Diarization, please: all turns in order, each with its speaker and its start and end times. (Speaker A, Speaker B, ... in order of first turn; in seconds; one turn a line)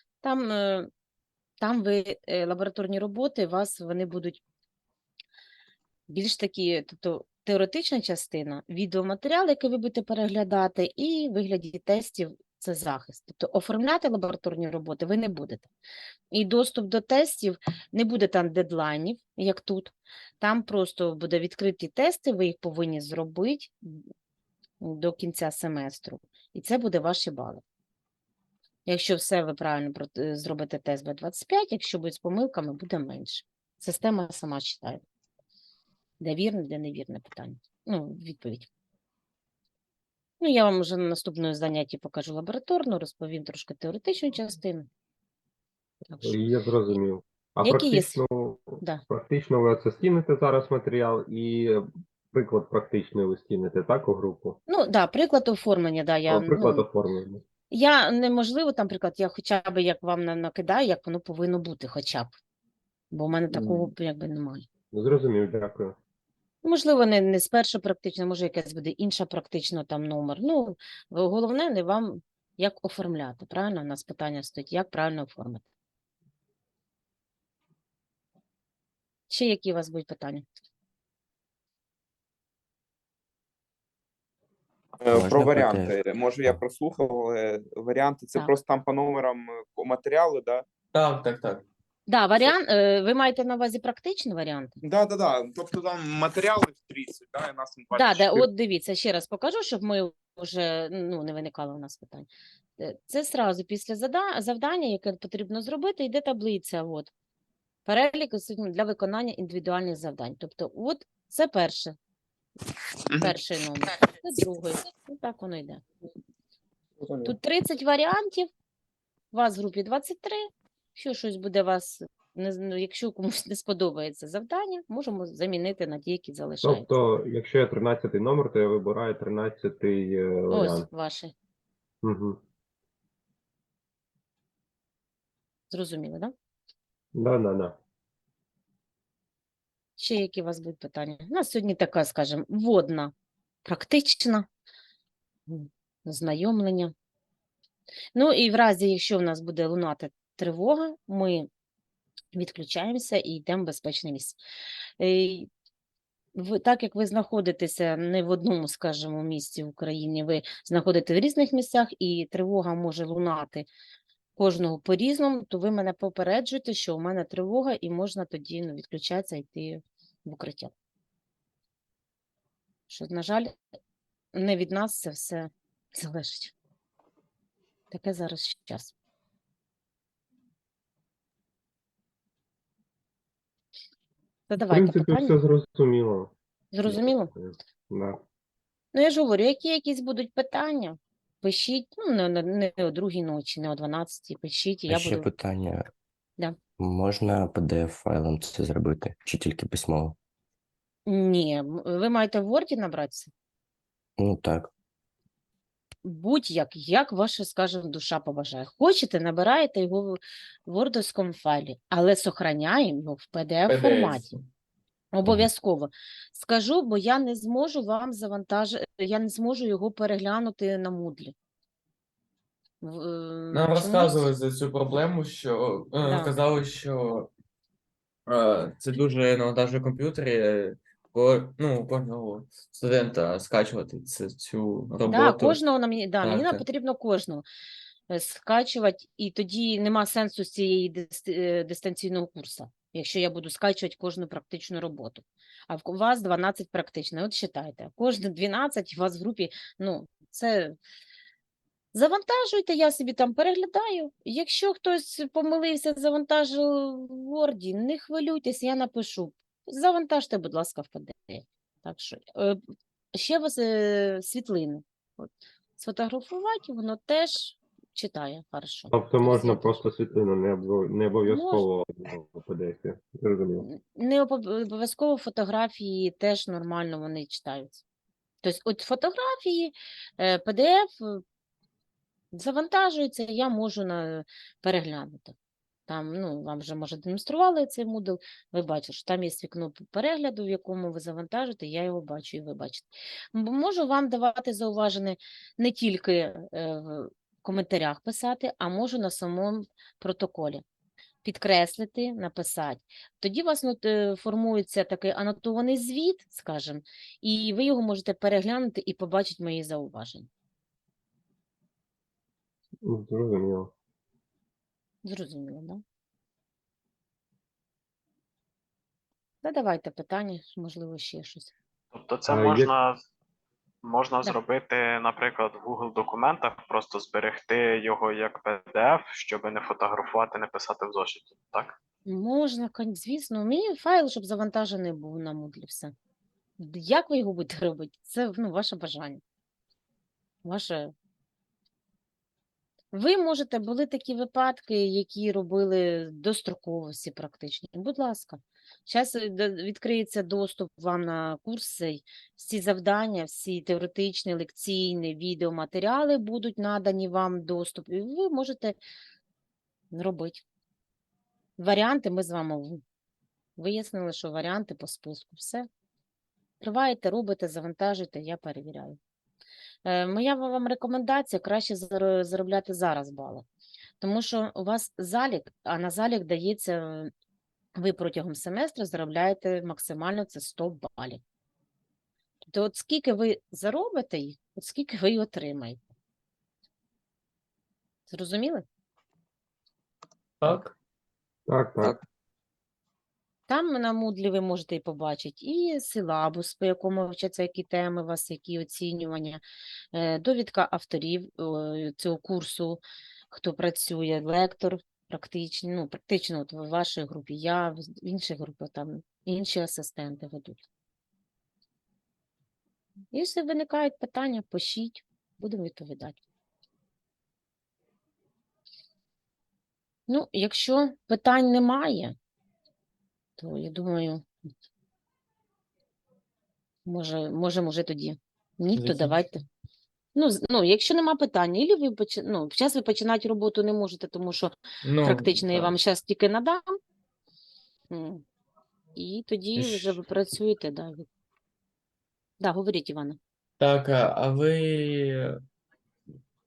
Speaker A: 0.2-0.9
Speaker A: 1.6-4.4
Speaker A: 6.1-15.7
Speaker A: 16.3-24.0
Speaker A: 24.8-27.6
Speaker A: 28.9-35.0
Speaker A: 36.2-38.7
Speaker A: 40.4-44.9
Speaker A: 46.1-46.4
Speaker B: 46.2-54.6
Speaker A: 47.6-48.2
Speaker A: 54.7-56.9
Speaker B: 56.3-57.4
Speaker A: 57.7-62.3
Speaker A: 63.1-64.7
Speaker B: 63.5-63.9
Speaker B: 64.9-66.0
Speaker A: 66.6-75.6
Speaker A: 79.3-80.5
Speaker C: 85.0-90.7
Speaker D: 85.1-86.6
Speaker E: 90.9-91.7
Speaker A: 92.1-94.8
Speaker C: 94.8-98.5
Speaker A: 97.9-102.3
Speaker A: 102.8-107.1
Speaker A: 107.9-112.0
Speaker C: 113.1-113.4
Speaker A: 113.2-115.8
Speaker C: 117.0-117.3
Speaker A: 117.2-118.5
Speaker A: 119.3-126.9
Speaker B: 126.6-130.9
Speaker A: 130.5-131.3
Speaker B: 132.0-132.4
Speaker A: 135.7-136.3
Speaker B: 137.1-137.8
Speaker A: 140.0-143.1
Speaker A: 143.7-144.5
Speaker A: 145.5-146.9
Speaker A: 148.1-151.5
Speaker A: 152.3-154.4
Speaker A: 155.0-155.5
Speaker A: 156.4-163.7
Speaker A: 164.4-170.7
Speaker A: 172.9-173.5
Speaker A: 174.3-176.5
Speaker A: 177.9-178.9
Speaker A: 184.5-185.4
Speaker B: 184.6-188.2
Speaker A: 186.7-187.3
Speaker A: 188.9-195.3
Speaker D: 194.9-195.9
Speaker D: 196.8-200.2
Speaker A: 201.1-203.3
Speaker D: 204.2-204.7
Speaker A: 206.0-214.3
Speaker E: 213.7-214.4
Speaker A: 215.1-221.3
Speaker A: 222.8-224.2
Speaker E: 223.5-227.3
Speaker A: 226.0-226.3
Speaker E: 228.3-235.6
Speaker A: 235.1-237.4
Speaker E: 236.2-236.6
Speaker A: 238.1-250.8
Speaker A: 251.9-262.6
Speaker A: 263.1-269.8
Speaker B: 268.9-273.7
Speaker A: 271.3-271.7
Speaker A: 273.6-277.8
Speaker A: 278.4-281.2
Speaker A: 282.3-285.4
Speaker A: 285.9-300.6
Speaker A: 301.2-310.3
Speaker B: 312.8-313.7
Speaker A: 315.0-315.8
Speaker A: 319.4-321.5
Speaker F: 321.9-323.0
Speaker B: 322.3-322.7
Speaker F: 323.8-331.8
Speaker A: 332.1-335.9
Speaker A: 336.6-339.2
Speaker A: 340.4-340.9
Speaker A: 342.9-358.8
Speaker A: 359.9-360.4
Speaker A: 361.6-362.8
Speaker A: 363.6-365.7
Speaker A: 366.6-369.0
Speaker A: 369.9-373.4
Speaker A: 374.0-377.1
Speaker A: 377.8-381.2
Speaker A: 382.4-385.8
Speaker A: 388.1-388.6
Speaker E: 390.4-390.7
Speaker B: 391.5-392.0
Speaker A: 393.5-399.4
Speaker A: 399.9-410.6
Speaker A: 413.1-416.2
Speaker A: 420.1-422.1
Speaker A: 423.4-424.2
Speaker A: 426.9-429.4
Speaker E: 428.8-429.2
Speaker A: 430.1-436.8
Speaker E: 434.8-435.7
Speaker A: 437.9-438.2
Speaker A: 438.9-441.1
Speaker E: 439.6-440.0
Speaker A: 442.4-443.2
Speaker E: 443.6-445.4